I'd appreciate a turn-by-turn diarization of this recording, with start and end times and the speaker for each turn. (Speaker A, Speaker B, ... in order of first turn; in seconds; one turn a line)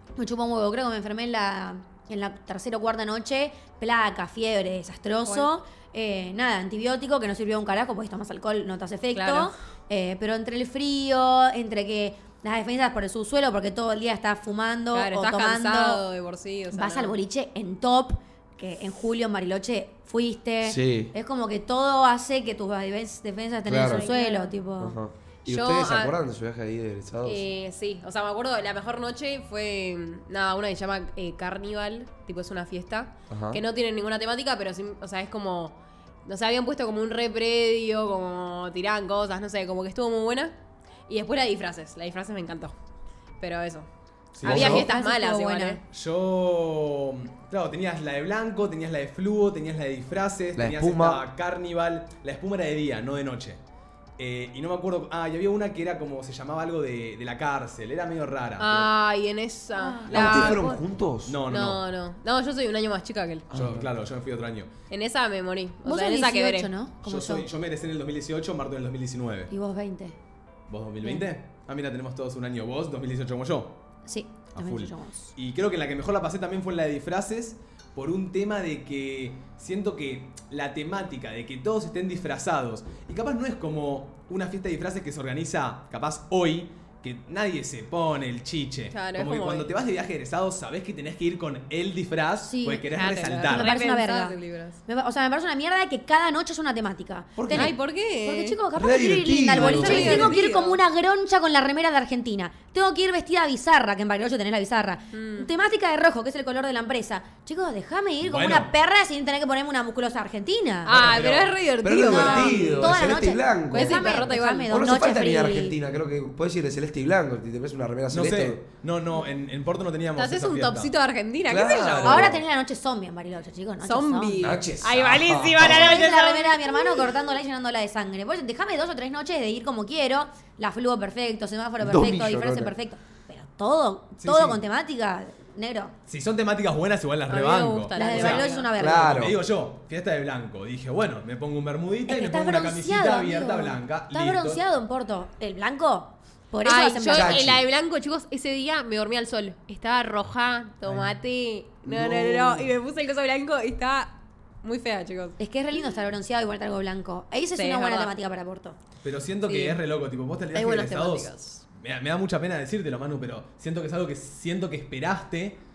Speaker A: 0.2-16.0
Speaker B: 9.1-9.5
Speaker B: 14.9-17.1
Speaker A: 16.7-25.0
Speaker C: 20.6-21.1
Speaker C: 23.6-24.1
Speaker B: 23.8-24.5
Speaker C: 24.8-27.5
Speaker B: 25.5-26.2
Speaker B: 27.2-40.6
Speaker C: 33.3-33.6
Speaker B: 41.1-42.8
Speaker B: 43.4-43.9
Speaker D: 44.4-44.9
Speaker C: 44.4-44.9
Speaker B: 44.4-45.8
Speaker A: 44.5-45.8
Speaker D: 45.9-53.6
Speaker C: 50.6-51.2
Speaker D: 54.2-58.9
Speaker B: 58.6-60.8
Speaker A: 59.8-60.5
Speaker D: 60.1-60.7
Speaker C: 60.1-61.4
Speaker D: 61.3-61.8
Speaker B: 61.5-63.5
Speaker C: 63.5-63.9
Speaker D: 63.5-64.7
Speaker B: 64.9-66.7
Speaker A: 65.8-67.5
Speaker D: 67.0-69.5
Speaker A: 69.5-70.2
Speaker D: 70.7-73.8
Speaker A: 74.1-75.3
Speaker D: 74.5-93.8
Speaker B: 88.9-89.7
Speaker A: 92.4-92.9
Speaker B: 92.9-94.8
Speaker A: 93.5-111.0
Speaker D: 97.4-97.8
Speaker B: 97.5-98.6
Speaker C: 98.8-100.4
Speaker B: 99.6-100.8
Speaker B: 105.1-105.5
Speaker D: 108.2-108.7
Speaker B: 110.9-114.8
Speaker D: 110.9-111.5
Speaker C: 111.8-118.6
Speaker A: 112.1-115.8
Speaker D: 118.1-120.9
Speaker B: 120.2-122.3
Speaker C: 121.5-122.4
Speaker D: 121.7-122.3
Speaker A: 122.0-124.5
Speaker B: 123.8-127.1
Speaker C: 124.4-126.0
Speaker A: 125.6-135.9
Speaker C: 131.8-132.8
Speaker D: 134.2-134.6
Speaker D: 136.1-144.6
Speaker B: 137.3-138.7
Speaker A: 137.9-139.2
Speaker C: 138.8-139.4
Speaker A: 142.1-147.5
Speaker B: 146.6-155.4
Speaker C: 147.1-147.6
Speaker D: 150.9-151.1
Speaker C: 151.9-152.7
Speaker A: 155.4-158.8
Speaker B: 157.6-158.1
Speaker D: 159.0-165.6
Speaker B: 159.4-159.8
Speaker B: 160.5-161.6